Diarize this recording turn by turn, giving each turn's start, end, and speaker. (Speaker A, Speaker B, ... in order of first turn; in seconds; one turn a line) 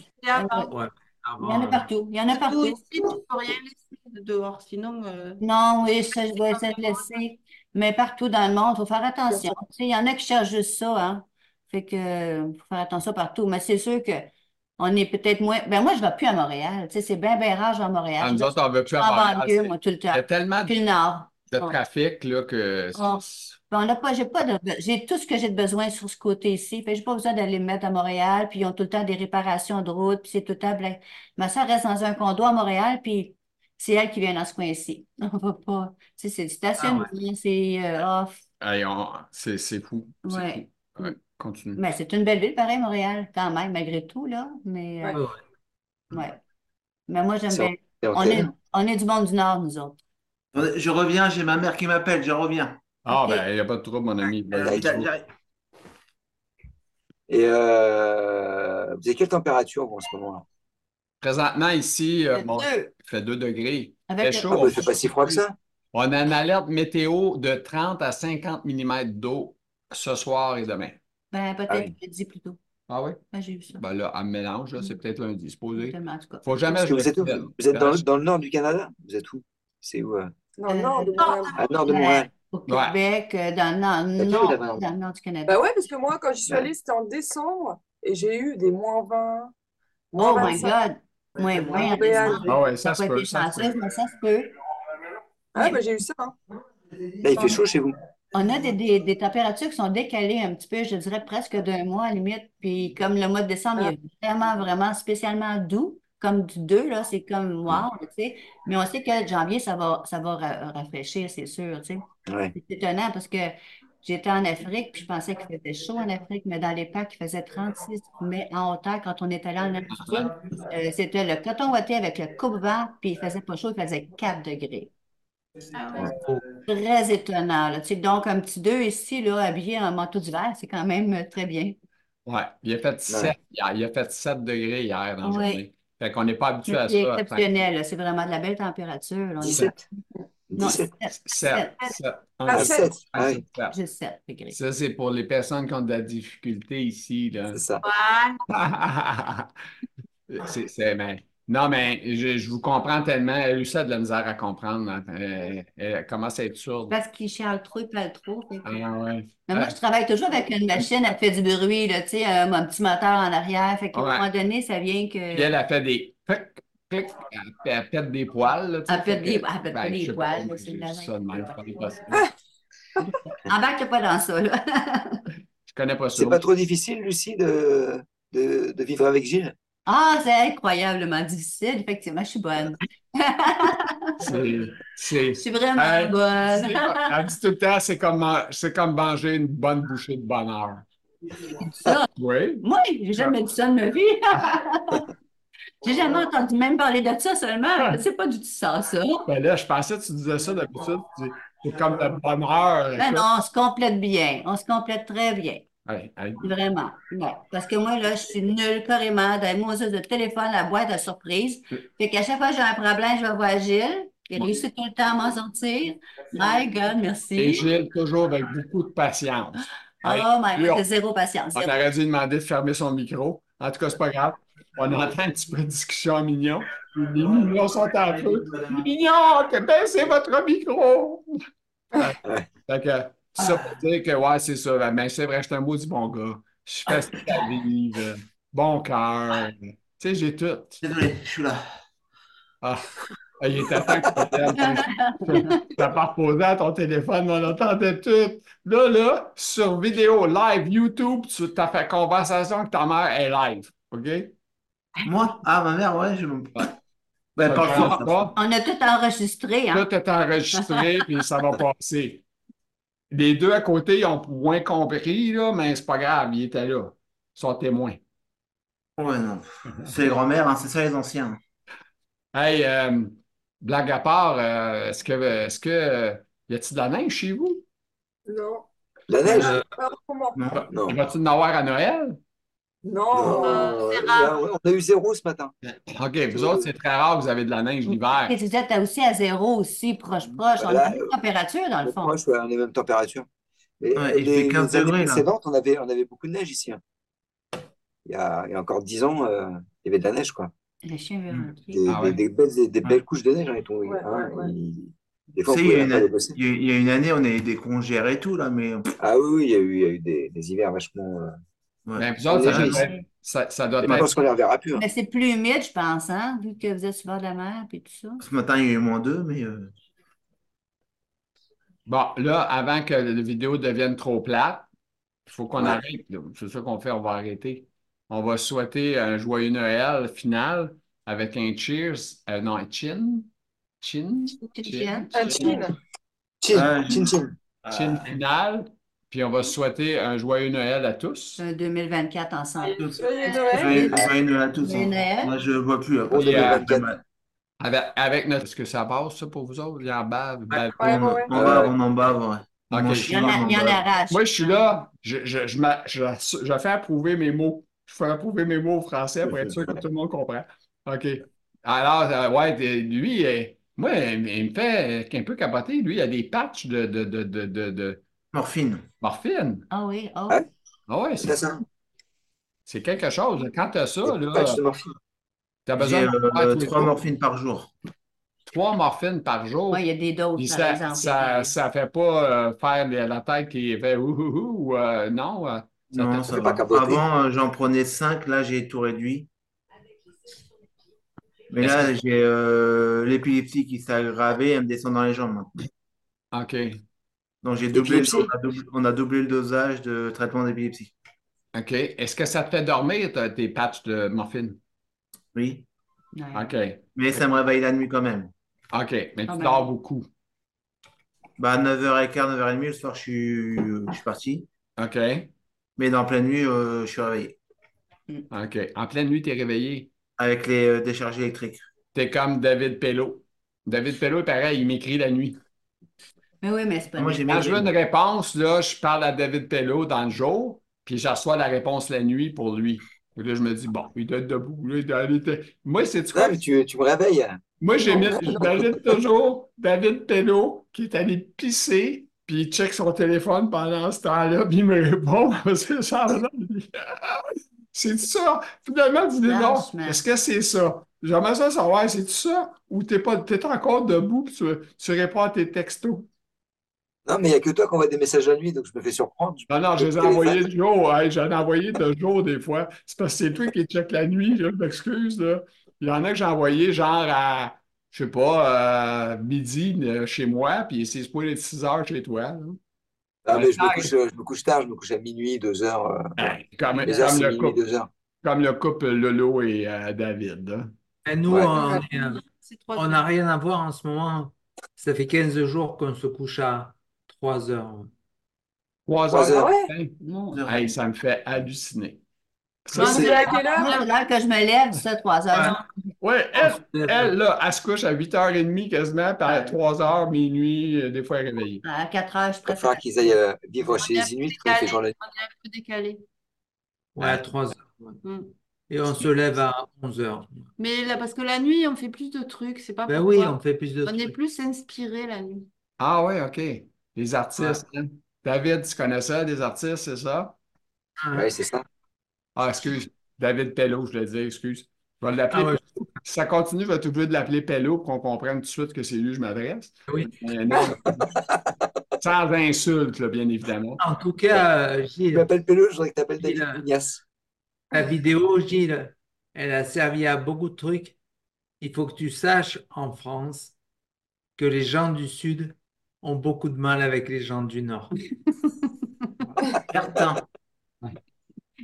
Speaker A: 0.2-0.7
Speaker B: 0.3-0.7
Speaker C: 0.7-1.9
Speaker B: 1.4-2.8
Speaker A: 2.3-5.4
Speaker B: 5.4-21.8
Speaker A: 6.3-7.0
Speaker D: 18.2-20.8
Speaker D: 21.5-23.5
Speaker B: 22.9-38.4
Speaker C: 36.8-37.1
Speaker D: 38.6-41.8
Speaker B: 40.2-40.6
Speaker B: 41.8-45.2
Speaker C: 45.1-45.4
Speaker B: 46.1-46.4
Speaker B: 47.1-50.0
Speaker E: 47.5-48.5
Speaker F: 50.5-52.8
Speaker D: 53.0-55.1
Speaker B: 53.1-53.4
Speaker F: 54.5-55.3
Speaker E: 57.3-60.4
Speaker D: 61.2-65.0
Speaker B: 62.4-62.7
Speaker B: 64.1-64.8
Speaker E: 64.5-65.5
Speaker D: 65.9-71.0
Speaker B: 71.3-72.6
Speaker E: 71.7-71.9
Speaker D: 72.9-73.2
Speaker B: 73.3-73.8
Speaker D: 73.8-78.0
Speaker B: 75.8-76.4
Speaker E: 76.7-80.3
Speaker G: 80.6-81.6
Speaker B: 80.7-85.6
Speaker E: 81.6-82.3
Speaker D: 82.7-83.0
Speaker E: 84.2-84.8
Speaker G: 85.5-89.5
Speaker B: 90.1-94.5
Speaker G: 90.1-90.8
Speaker G: 91.5-92.5
Speaker D: 92.5-93.8
Speaker G: 95.5-96.3
Speaker E: 97.2-97.9
Speaker B: 98.3-124.9
Speaker E: 112.3-112.5
Speaker D: 119.9-120.3
Speaker A: 125.7-126.1
Speaker C: 126.0-126.4
Speaker B: 126.7-131.8
Speaker D: 132.2-137.5
Speaker E: 133.1-133.3
Speaker B: 135.2-135.6
Speaker B: 136.7-139.8
Speaker E: 139.4-139.8
Speaker E: 140.5-140.9
Speaker B: 140.6-141.9
Speaker D: 141.1-143.8
Speaker G: 142.4-142.9
Speaker E: 142.5-143.4
Speaker B: 143.7-144.6
Speaker D: 144.5-147.6
Speaker E: 147.5-147.8
Speaker A: 147.8-148.4
Speaker D: 148.5-149.5
Speaker D: 150.3-157.0
Speaker B: 156.9-158.7
Speaker D: 158.6-159.8
Speaker B: 159.5-165.5
Speaker D: 163.9-164.3
Speaker D: 165.3-172.3
Speaker B: 168.9-171.1
Speaker B: 173.5-175.2
Speaker D: 175.7-176.4
Speaker E: 176.2-179.5
Speaker B: 179.8-184.3
Speaker D: 184.2-190.8
Speaker B: 185.4-187.2
Speaker B: 191.6-195.1
Speaker D: 192.2-192.6
Speaker B: 195.8-199.3
Speaker D: 199.3-203.2
Speaker B: 202.9-205.7
Speaker D: 205.8-206.5
Speaker B: 206.4-217.7
Speaker D: 217.4-220.8
Speaker B: 220.0-221.8
Speaker D: 221.5-231.3
Speaker F: 226.9-228.9
Speaker D: 231.9-240.8
Speaker F: 240.8-241.6
Speaker D: 242.6-254.3
Speaker E: 243.8-244.3
Speaker B: 244.5-245.7
Speaker F: 255.1-256.7
Speaker F: 257.4-258.3
Speaker D: 257.4-258.4
Speaker B: 257.6-259.9
Speaker D: 259.7-262.2
Speaker B: 260.6-260.8
Speaker D: 263.1-268.0
Speaker F: 269.0-271.4
Speaker D: 272.3-277.6
Speaker G: 278.3-278.7
Speaker E: 279.1-279.6
Speaker C: 279.2-279.6
Speaker G: 279.2-280.4
Speaker F: 280.3-280.7
Speaker D: 280.5-282.2
Speaker E: 280.7-281.0
Speaker G: 282.8-283.8
Speaker E: 283.1-285.5
Speaker A: 283.2-284.4
Speaker D: 285.6-288.4
Speaker E: 286.3-286.7
Speaker B: 287.9-292.1
Speaker E: 290.5-291.1
Speaker E: 291.8-293.3
Speaker E: 293.8-296.8
Speaker F: 293.9-295.3
Speaker E: 298.1-300.5
Speaker B: 300.8-301.9
Speaker E: 301.7-306.3
Speaker D: 301.9-302.2
Speaker G: 303.8-304.5
Speaker F: 305.5-308.9
Speaker E: 309.0-311.4
Speaker F: 311.9-312.9
Speaker D: 312.0-314.1
Speaker E: 312.3-312.9
Speaker E: 313.8-314.8
Speaker B: 314.7-318.2
Speaker F: 318.2-319.7
Speaker D: 321.9-324.7
Speaker D: 325.3-333.3
Speaker D: 333.8-335.6
Speaker B: 334.5-335.6
Speaker G: 335.1-335.7
Speaker E: 336.4-337.3
Speaker F: 336.5-337.1
Speaker F: 337.7-337.9
Speaker D: 337.7-341.4
Speaker B: 341.4-345.3
Speaker G: 342.7-344.0
Speaker F: 342.8-347.0
Speaker E: 346.1-346.9
Speaker D: 346.1-346.7
Speaker D: 347.6-351.7
Speaker G: 350.8-351.3
Speaker F: 350.8-353.8
Speaker E: 351.3-351.7
Speaker D: 352.7-368.0
Speaker B: 353.0-354.2
Speaker E: 359.3-359.5
Speaker F: 368.3-368.8
Speaker D: 369.0-369.7
Speaker B: 369.7-370.4
Speaker D: 370.9-371.4
Speaker E: 371.2-371.6
Speaker D: 372.6-374.6
Speaker E: 374.1-374.9
Speaker D: 375.6-376.9
Speaker F: 375.8-377.7
Speaker D: 378.5-379.8
Speaker B: 379.7-381.5
Speaker D: 380.4-386.4
Speaker F: 385.9-389.3
Speaker E: 386.3-387.0
Speaker F: 391.5-395.5
Speaker D: 391.6-391.9
Speaker D: 396.3-396.8
Speaker F: 397.4-400.9
Speaker E: 397.7-398.3
Speaker D: 401.5-404.6
Speaker F: 405.3-405.6
Speaker B: 406.1-406.5
Speaker D: 406.3-407.0
Speaker F: 406.9-408.3
Speaker D: 408.7-410.1
Speaker B: 409.3-409.7
Speaker F: 411.4-414.5
Speaker D: 414.8-415.3
Speaker F: 415.8-417.4
Speaker D: 418.3-419.9
Speaker F: 420.2-421.6
Speaker D: 421.9-425.4
Speaker B: 426.4-427.5
Speaker F: 427.0-427.7
Speaker D: 427.2-436.4
Speaker E: 436.1-438.7
Speaker D: 437.6-456.1
Speaker B: 449.2-450.0
Speaker E: 457.1-460.4
Speaker D: 459.5-472.6
Speaker E: 473.2-476.3
Speaker D: 473.3-473.9
Speaker D: 476.2-477.6
Speaker E: 476.8-477.9
Speaker D: 478.2-480.7
Speaker C: 481.0-482.2
Speaker E: 481.3-481.5
Speaker A: 481.5-483.0
Speaker C: 482.7-487.9
Speaker D: 488.9-492.0
Speaker E: 489.1-489.5
Speaker G: 489.3-489.7
Speaker B: 490.0-490.5
Speaker F: 490.3-490.6
Speaker D: 492.6-493.2
Speaker G: 492.7-493.9
Speaker A: 492.7-493.8
Speaker B: 492.9-495.7
Speaker C: 495.3-495.6
Speaker D: 496.0-501.6
Speaker C: 496.3-497.1
Speaker B: 501.6-502.9
Speaker E: 502.4-504.9
Speaker A: 503.7-506.0
Speaker C: 506.9-508.0
Speaker A: 508.0-508.3
Speaker C: 508.7-510.5
Speaker A: 510.6-515.5
Speaker C: 512.9-514.1
Speaker D: 515.8-520.4
Speaker C: 517.4-517.6
Speaker C: 521.0-521.3
Speaker E: 521.1-521.6
Speaker D: 522.4-531.0
Speaker C: 525.3-525.9
Speaker D: 532.0-533.8
Speaker C: 533.8-535.3
Speaker E: 535.1-537.0
Speaker C: 536.2-536.7
Speaker C: 537.7-541.0
Speaker C: 541.6-543.5
Speaker C: 544.4-547.9
Speaker F: 549.7-550.2